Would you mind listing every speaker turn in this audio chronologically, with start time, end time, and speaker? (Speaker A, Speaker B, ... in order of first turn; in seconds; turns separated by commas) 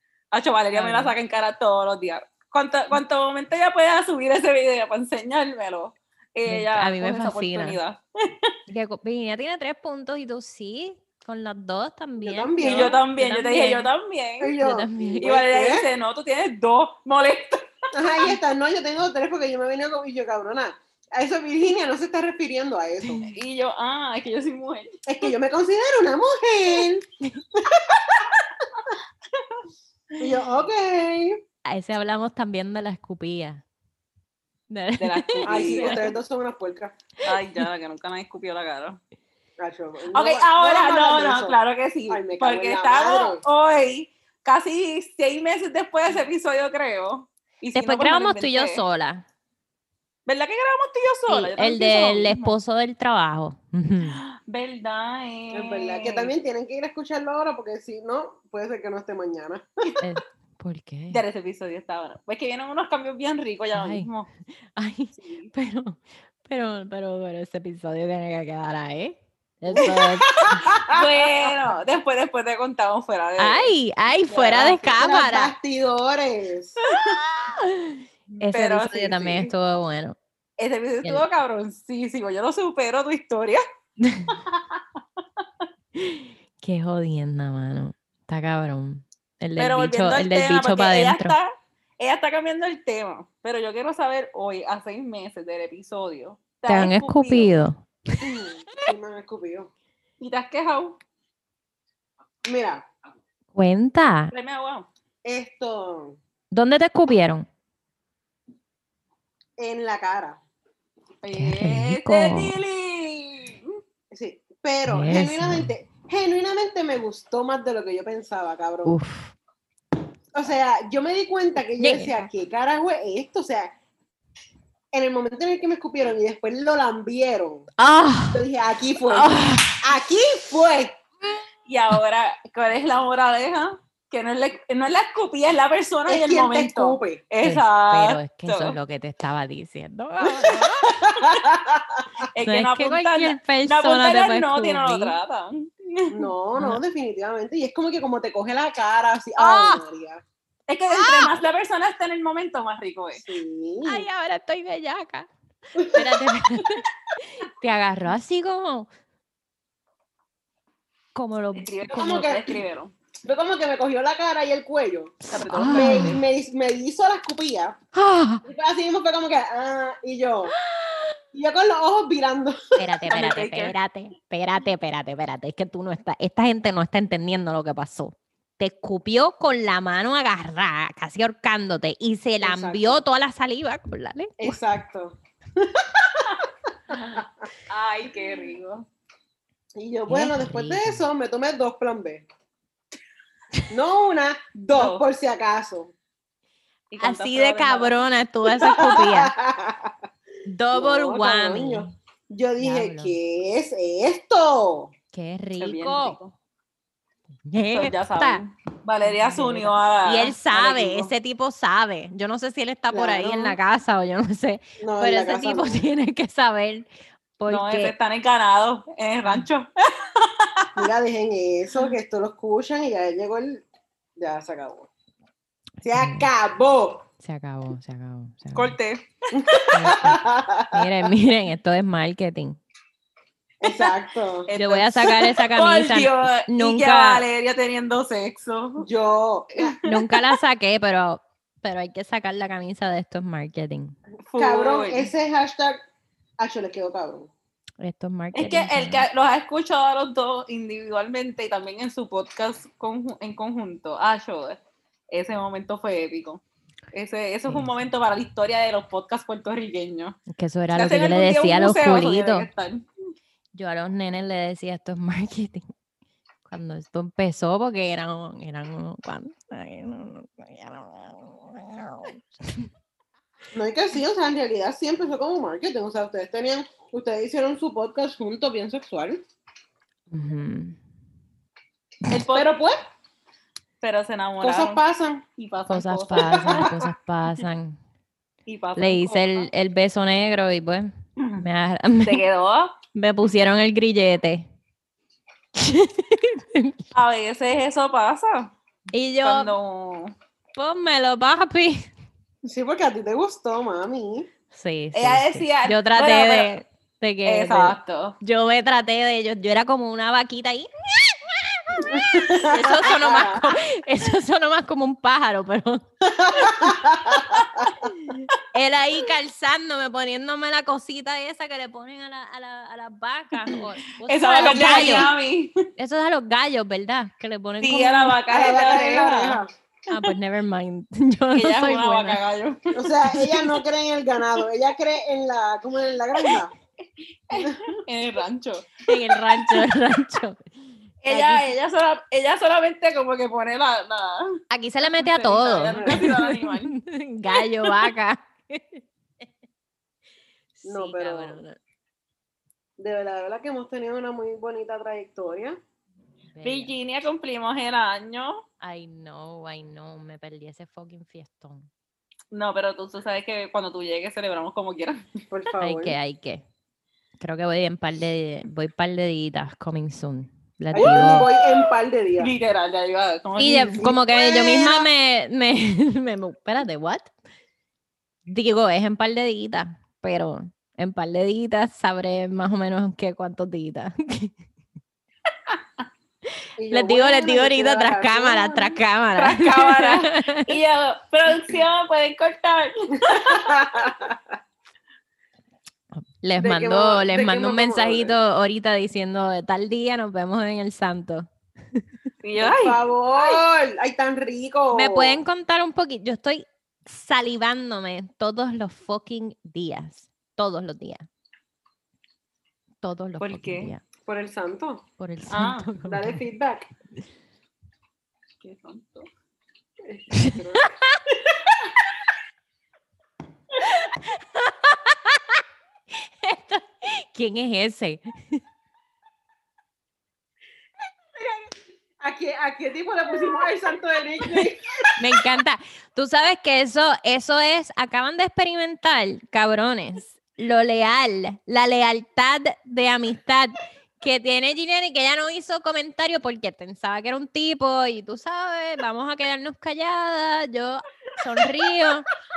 Speaker A: 0.3-8.5, Speaker B: 0.7-1.1, Speaker B: 6.5-7.8, Speaker B: 8.7-13.9, Speaker C: 12.2-13.0, Speaker A: 12.6-14.5, Speaker C: 14.4-15.9, Speaker B: 14.6-15.3, Speaker A: 15.2-17.7, Speaker C: 17.9-23.2, Speaker A: 23.3-25.0, Speaker C: 25.1-28.0, Speaker C: 30.2-31.4, Speaker B: 31.6-33.6, Speaker B: 34.7-36.0, Speaker A: 35.0-36.1, Speaker C: 35.4-37.0, Speaker A: 37.2-39.0, Speaker C: 39.6-43.4, Speaker A: 40.1-48.8, Speaker B: 47.7-49.2, Speaker A: 50.2-52.6, Speaker B: 51.3-54.2, Speaker A: 54.0-56.3, Speaker C: 55.5-59.7, Speaker B: 60.0-61.2, Speaker A: 61.1-64.3, Speaker B: 63.7-70.7, Speaker A: 65.2-65.5, Speaker C: 69.7-71.0, Speaker A: 70.9-73.7, Speaker B: 73.4-75.5, Speaker C: 74.3-76.8, Speaker A: 74.3-75.1, Speaker A: 76.8-77.2, Speaker B: 77.2-80.2, Speaker A: 78.3-79.5, Speaker A: 80.6-83.6, Speaker B: 84.0-84.3, Speaker A: 84.5-84.8, Speaker B: 86.0-91.3, Speaker A: 89.6-97.5, Speaker B: 96.7-98.4, Speaker C: 98.2-99.7, Speaker A: 100.2-101.0, Speaker C: 102.4-102.8, Speaker B: 103.5-104.3, Speaker A: 104.3-104.9, Speaker C: 105.2-106.2, Speaker B: 106.5-107.5, Speaker C: 109.6-110.4, Speaker A: 111.2-113.7, Speaker B: 111.3-112.5, Speaker C: 114.1-119.0, Speaker B: 114.8-115.7, Speaker B: 118.8-119.3, Speaker C: 120.3-123.7, Speaker B: 121.8-122.3, Speaker C: 124.9-127.7, Speaker B: 127.8-128.4, Speaker C: 128.3-131.0, Speaker B: 129.1-129.8, Speaker A: 131.7-138.8, Speaker C: 136.1-137.2, Speaker B: 137.4-141.0, Speaker C: 140.8-142.2, Speaker A: 142.3-146.1, Speaker B: 142.4-145.2, Speaker C: 146.1-150.2, Speaker B: 146.6-146.8, Speaker B: 149.4-149.8, Speaker A: 150.7-153.2, Speaker B: 150.9-151.3, Speaker C: 153.2-154.1, Speaker B: 153.8-158.9, Speaker C: 155.8-156.2, Speaker B: 161.1-162.3, Speaker A: 161.5-162.9, Speaker C: 161.9-162.6, Speaker C: 163.2-167.8, Speaker A: 165.3-166.2, Speaker B: 165.4-166.2, Speaker B: 167.9-168.4, Speaker C: 168.4-170.5, Speaker B: 170.6-171.1, Speaker C: 171.3-173.0, Speaker B: 172.7-184.6, Speaker A: 173.1-173.7, Speaker C: 182.4-183.0, Speaker C: 184.4-187.5, Speaker A: 187.7-188.8, Speaker C: 189.8-192.2, Speaker B: 190.1-191.0, Speaker C: 193.7-195.9, Speaker A: 194.6-195.0, Speaker A: 196.9-198.0, Speaker B: 197.0-199.3, Speaker C: 198.5-199.9, Speaker B: 200.4-201.9, Speaker C: 200.7-204.9, Speaker B: 202.6-203.1, Speaker B: 205.1-206.2, Speaker A: 205.6-206.3, Speaker B: 207.5-208.4, Speaker A: 207.7-211.1, Speaker B: 209.0-217.9, Speaker C: 212.9-213.6, Speaker C: 214.8-215.8, Speaker A: 217.5-220.8, Speaker C: 220.7-223.6, Speaker C: 224.2-224.9, Speaker B: 225.8-226.3, Speaker C: 225.8-227.0, Speaker B: 227.2-228.8, Speaker A: 228.5-229.8, Speaker C: 229.3-230.8, Speaker B: 229.7-232.6, Speaker C: 233.6-234.5, Speaker A: 233.6-238.9, Speaker B: 234.5-237.2, Speaker C: 238.8-239.8, Speaker A: 239.6-240.3, Speaker B: 239.8-243.9, Speaker A: 244.2-245.1, Speaker C: 244.3-245.8, Speaker C: 246.4-247.3, Speaker B: 247.8-249.0, Speaker A: 248.3-260.2, Speaker B: 260.3-262.5, Speaker A: 260.7-262.8, Speaker B: 263.5-265.7, Speaker B: 266.4-272.7, Speaker C: 273.5-279.2, Speaker B: 280.1-280.8, Speaker A: 282.1-282.6, Speaker C: 282.2-282.8, Speaker A: 283.8-284.8, Speaker C: 284.4-285.2, Speaker A: 285.4-286.7, Speaker B: 285.7-287.8, Speaker C: 286.2-286.9, Speaker A: 288.5-289.5, Speaker B: 288.8-292.2, Speaker A: 291.2-291.4, Speaker A: 292.0-292.7, Speaker B: 292.9-294.5, Speaker B: 295.6-296.8, Speaker A: 296.9-298.5, Speaker B: 298.9-299.5, Speaker A: 299.2-300.1, Speaker B: 300.6-301.9, Speaker C: 302.4-304.3, Speaker B: 304.5-315.8, Speaker A: 304.9-306.5, Speaker A: 307.2-308.2, Speaker C: 311.8-313.5, Speaker C: 316.0-317.7, Speaker B: 317.8-325.1, Speaker A: 324.1-325.6, Speaker C: 324.4-325.1, Speaker B: 325.8-328.2, Speaker A: 327.6-329.4, Speaker C: 328.3-329.5, Speaker B: 329.9-332.2, Speaker A: 331.3-333.5, Speaker C: 332.7-336.5, Speaker A: 337.3-339.6, Speaker B: 338.9-340.4, Speaker A: 341.0-346.7, Speaker B: 341.1-341.5, Speaker B: 344.5-348.8, Speaker C: 345.7-346.1, Speaker A: 347.3-347.9, Speaker B: 350.6-351.6, Speaker C: 350.6-351.4, Speaker C: 352.8-355.6, Speaker B: 356.3-356.7, Speaker A: 356.4-358.4, Speaker B: 358.6-361.7, Speaker A: 362.3-365.1, Speaker C: 365.3-366.0, Speaker B: 365.6-366.4, Speaker B: 367.2-371.3, Speaker A: 370.7-371.4, Speaker C: 370.7-372.3, Speaker A: 372.2-373.9, Speaker B: 373.4-377.1, Speaker C: 373.7-374.9, Speaker B: 378.3-384.3, Speaker C: 386.6-388.8, Speaker B: 386.7-390.5, Speaker A: 389.1-393.6, Speaker C: 393.1-394.3, Speaker B: 395.9-401.8, Speaker C: 396.4-398.2, Speaker A: 402.2-402.8, Speaker C: 402.4-405.2, Speaker B: 404.7-411.1, Speaker B: 412.8-413.8, Speaker A: 413.2-413.7, Speaker C: 414.0-414.8, Speaker B: 415.0-416.2, Speaker A: 415.3-415.7, Speaker C: 415.8-416.7, Speaker A: 418.4-419.1, Speaker C: 419.8-420.7, Speaker B: 420.2-421.0, Speaker B: 423.6-425.4, Speaker B: 425.9-428.4, Speaker C: 432.0-434.9, Speaker B: 435.0-452.1